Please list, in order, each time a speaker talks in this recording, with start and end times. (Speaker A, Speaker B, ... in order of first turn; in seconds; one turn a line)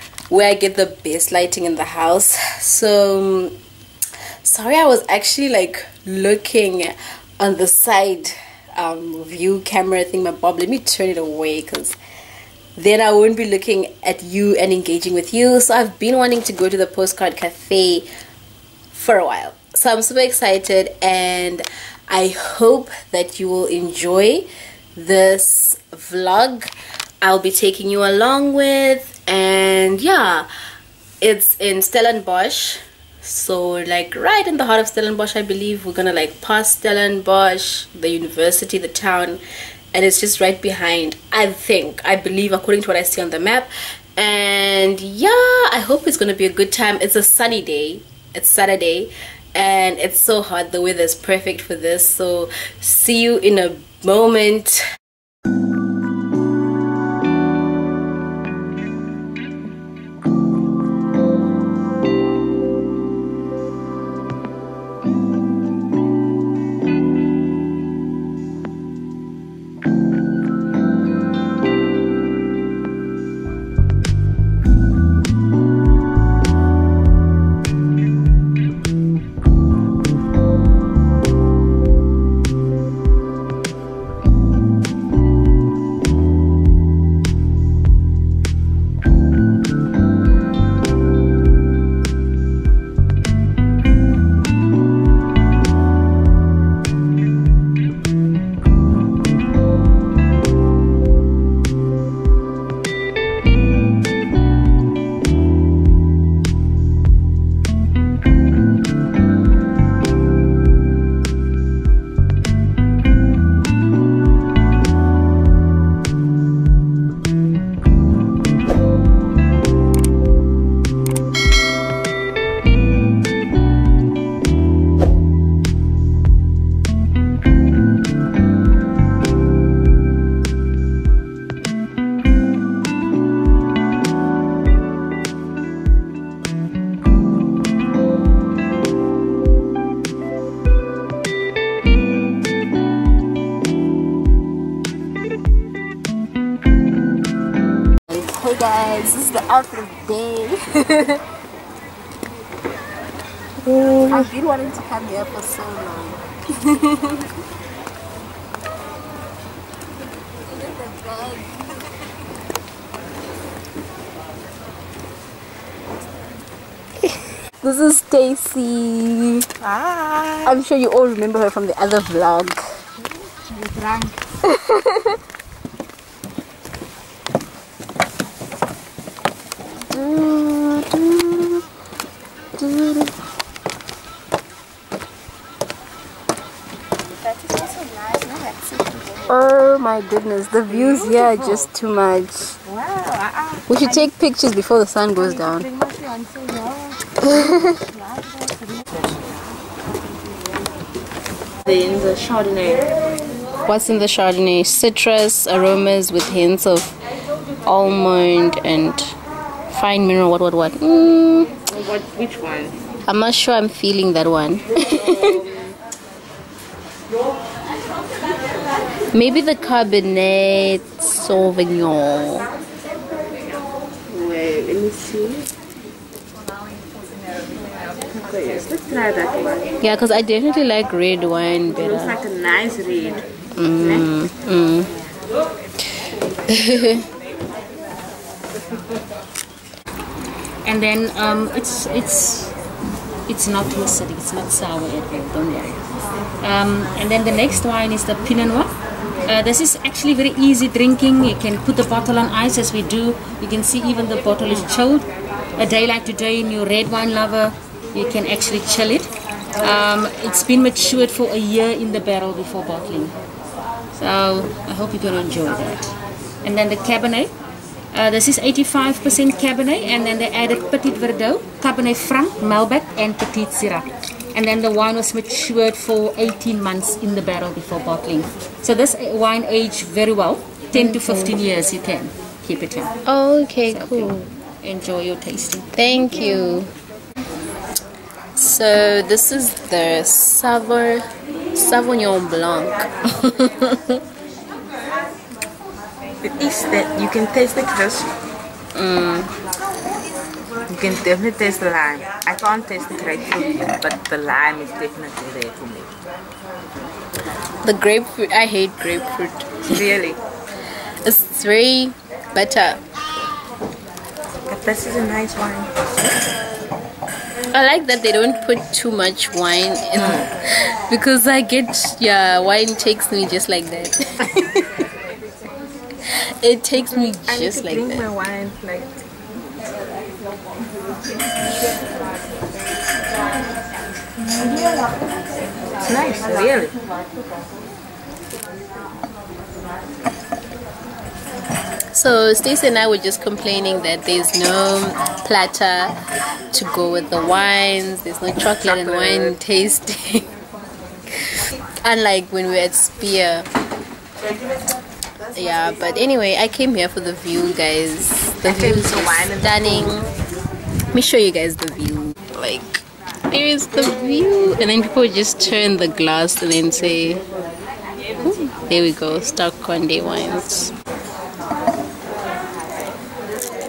Speaker A: 0.3-3.6
Speaker A: 4.4-12.0
Speaker A: 12.8-18.1
Speaker A: 18.9-26.7
Speaker A: 27.2-30.5
Speaker A: 31.2-39.4
Speaker A: 39.9-54.8
Speaker A: 148.1-151.2
Speaker B: 153.7-154.2
Speaker A: 154.0-157.3
Speaker A: 160.8-161.7
Speaker A: 167.6-169.5
Speaker B: 169.6-170.6
Speaker A: 170.4-172.6
Speaker B: 173.5-174.1
Speaker A: 174.4-175.2
Speaker A: 179.9-181.7
Speaker A: 182.6-183.1
Speaker B: 187.2-189.2
Speaker A: 189.3-192.6
Speaker B: 190.7-191.7
Speaker B: 192.7-194.1
Speaker A: 193.7-195.7
Speaker B: 195.2-199.1
Speaker A: 197.2-197.8
Speaker B: 201.7-202.9
Speaker A: 203.7-206.9
Speaker A: 207.7-209.1
Speaker A: 209.7-211.5
Speaker B: 211.7-212.8
Speaker A: 213.1-215.4
Speaker A: 219.1-222.5
Speaker B: 224.1-225.5
Speaker B: 228.2-229.7
Speaker A: 229.8-232.2
Speaker B: 231.7-233.2
Speaker A: 233.6-234.9
Speaker B: 233.8-234.1
Speaker A: 236.5-237.1
Speaker C: 240.7-242.5
Speaker C: 243.3-245.8
Speaker C: 246.4-248.7
Speaker C: 249.3-255.1
Speaker C: 255.6-259.1
Speaker C: 259.6-263.1
Speaker C: 263.9-265.9
Speaker C: 266.4-267.3
Speaker C: 267.9-282.9
Speaker A: 280.8-281.4
Speaker A: 283.1-284.3
Speaker C: 283.7-285.7
Speaker A: 285.7-286.7
Speaker A: 288.4-294.0
Speaker B: 296.2-298.1
Speaker A: 298.8-299.3
Speaker B: 300.7-305.9
Speaker A: 307.6-309.8
Speaker B: 309.7-310.2
Speaker A: 311.0-312.8
Speaker B: 314.5-316.2
Speaker A: 317.5-320.3
Speaker B: 320.0-320.3
Speaker A: 320.9-324.8
Speaker A: 326.4-328.1
Speaker B: 327.3-328.9
Speaker B: 334.4-334.9
Speaker B: 335.8-336.8
Speaker A: 341.9-345.9
Speaker A: 346.5-350.3
Speaker B: 348.6-349.4
Speaker A: 351.3-353.5
Speaker A: 355.3-360.1
Speaker B: 358.4-360.0
Speaker A: 360.9-367.2
Speaker A: 368.2-370.7